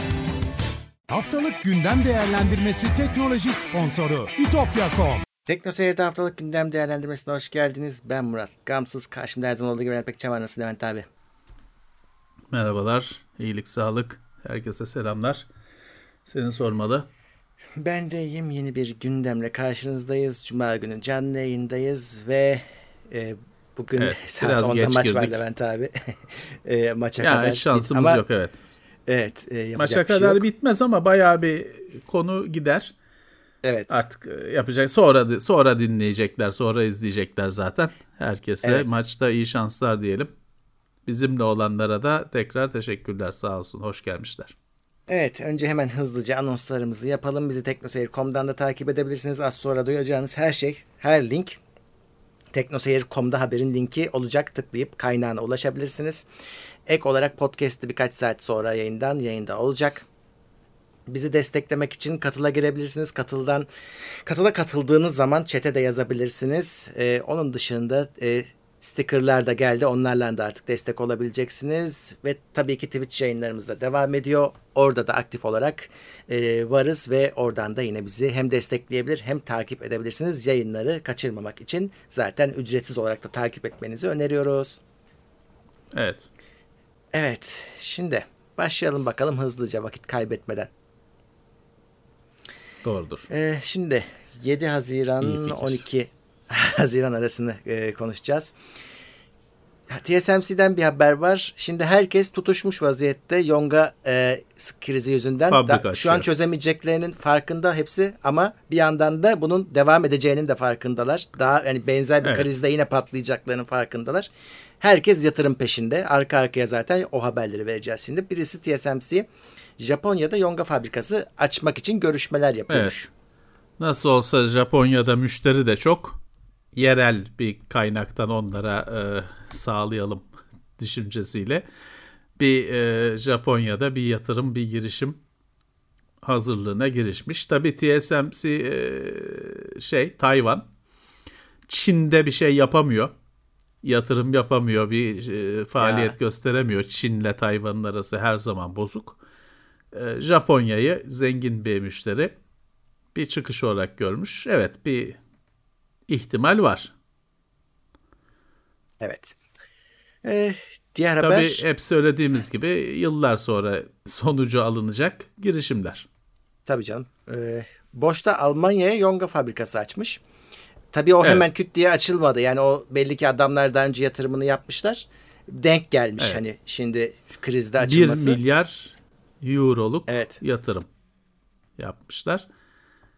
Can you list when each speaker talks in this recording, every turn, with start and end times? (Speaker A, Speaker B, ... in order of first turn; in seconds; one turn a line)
Speaker A: 1.1-5.2
Speaker B: 5.5-11.1
Speaker C: 12.5-15.5
Speaker C: 16.3-17.1
Speaker B: 17.8-28.2
Speaker C: 24.0-25.4
Speaker C: 27.2-28.6
Speaker B: 29.1-30.4
Speaker C: 29.8-32.9
Speaker B: 33.6-33.9
Speaker C: 33.9-40.3
Speaker B: 38.6-38.9
Speaker C: 41.1-44.5
Speaker B: 45.1-51.6
Speaker B: 52.5-56.3
Speaker B: 56.9-60.1
Speaker B: 61.1-63.7
Speaker B: 64.2-84.8
Speaker C: 85.9-86.3
Speaker B: 87.1-90.7
Speaker C: 92.8-93.3
Speaker B: 93.3-98.6
Speaker C: 95.2-95.8
Speaker B: 99.9-123.1
Speaker C: 105.5-106.3
Speaker C: 122.7-123.0
Speaker C: 123.8-126.2
Speaker C: 126.8-130.3
Speaker C: 130.8-131.7
Speaker C: 132.4-135.2
Speaker C: 136.2-140.7
Speaker C: 141.7-143.1
Speaker C: 143.8-149.2
Speaker B: 145.8-146.1
Speaker C: 149.9-152.3
Speaker C: 153.1-155.2
Speaker C: 156.1-156.9
Speaker B: 159.0-159.4
Speaker B: 160.2-161.6
Speaker C: 161.2-166.1
Speaker B: 166.7-170.2
Speaker B: 170.9-178.4
Speaker C: 177.8-180.9
Speaker B: 180.1-180.4
Speaker C: 181.8-182.5